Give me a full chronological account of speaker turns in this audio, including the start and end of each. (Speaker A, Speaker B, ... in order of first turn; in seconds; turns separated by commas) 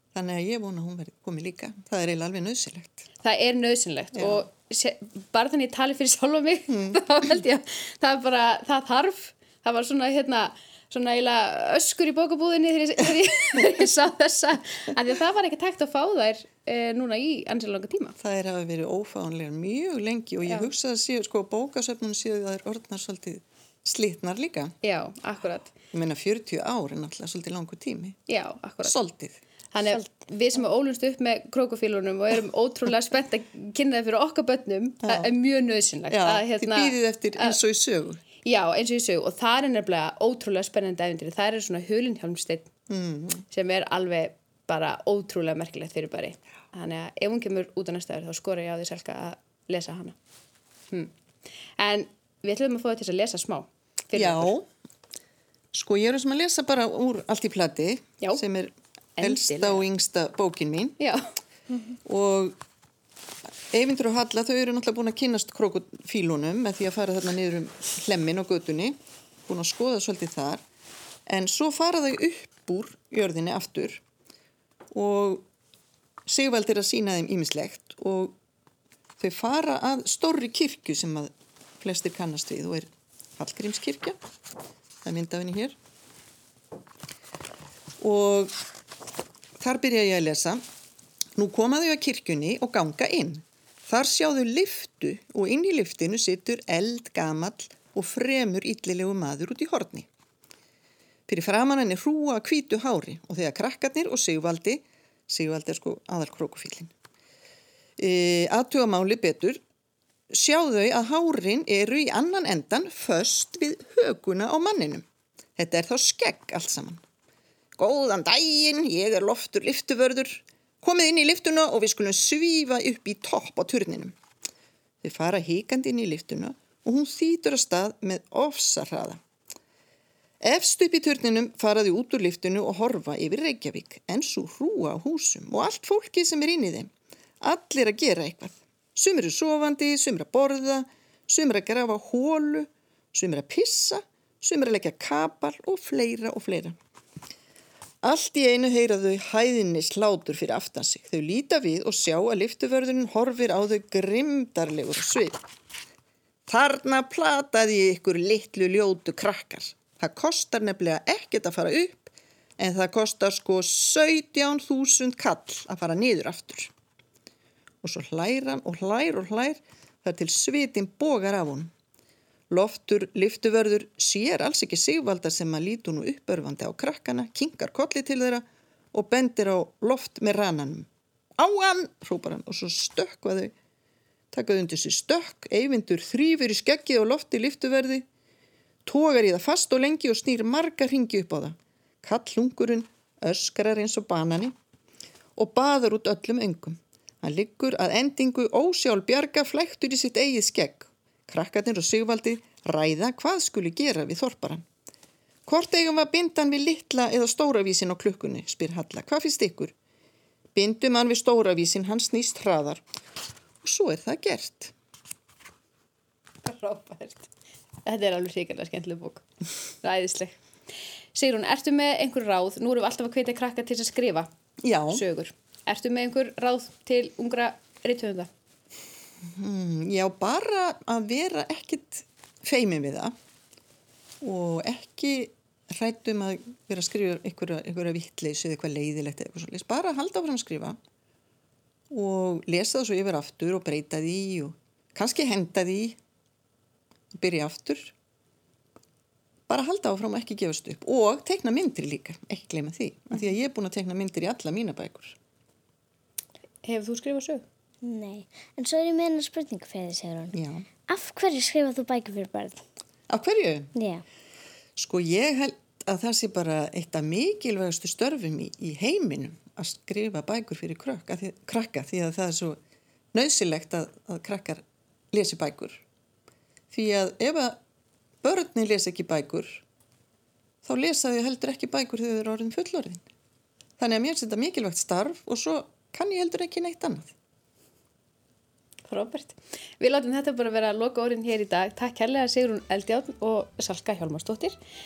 Speaker A: 0.1-3.1, Speaker B: 3.2-18.2, Speaker A: 4.1-4.5, Speaker A: 6.7-7.0, Speaker A: 18.2-24.7, Speaker B: 24.8-25.7, Speaker A: 25.9-28.2, Speaker B: 28.3-29.0, Speaker A: 28.8-30.0, Speaker B: 29.7-37.6, Speaker A: 35.0-35.3, Speaker A: 36.1-38.2, Speaker B: 38.4-42.7, Speaker A: 42.9-43.5, Speaker B: 43.5-50.2, Speaker B: 51.8-54.5, Speaker A: 54.1-54.6, Speaker A: 55.7-61.0, Speaker B: 59.2-59.9, Speaker B: 61.0-61.2, Speaker A: 62.1-62.6, Speaker A: 63.7-70.6, Speaker A: 71.3-74.0, Speaker A: 74.9-75.5, Speaker A: 76.2-78.4, Speaker A: 79.2-84.2, Speaker A: 85.0-85.8, Speaker A: 88.0-88.5, Speaker A: 89.6-90.6, Speaker A: 91.4-100.1, Speaker A: 101.3-106.9, Speaker A: 108.0-109.6, Speaker A: 110.3-115.0, Speaker A: 115.6-117.0, Speaker A: 117.8-124.1, Speaker A: 125.0-129.2, Speaker A: 130.4-136.9, Speaker A: 137.4-146.8, Speaker A: 148.0-155.4, Speaker A: 156.5-166.7, Speaker A: 167.8-171.7, Speaker A: 172.5-183.5, Speaker A: 184.3-188.0, Speaker A: 188.9-194.5, Speaker A: 195.4-204.6, Speaker A: 205.5-209.7, Speaker A: 210.6-212.8, Speaker A: 213.6-214.7, Speaker B: 216.4-217.3, Speaker B: 217.8-219.2, Speaker B: 219.8-220.4, Speaker B: 221.1-224.3, Speaker A: 224.6-225.1, Speaker B: 224.9-228.3, Speaker A: 229.3-233.1, Speaker A: 234.2-240.8, Speaker A: 241.9-246.0, Speaker A: 247.1-247.9, Speaker A: 249.5-255.2, Speaker B: 256.6-257.4, Speaker C: 257.8-262.6, Speaker A: 260.3-260.7, Speaker A: 263.1-263.7, Speaker C: 263.8-264.0, Speaker A: 264.8-272.6, Speaker A: 273.1-275.8, Speaker A: 276.7-277.6, Speaker A: 278.2-279.6, Speaker A: 280.6-283.0, Speaker A: 283.8-287.1, Speaker B: 288.9-294.6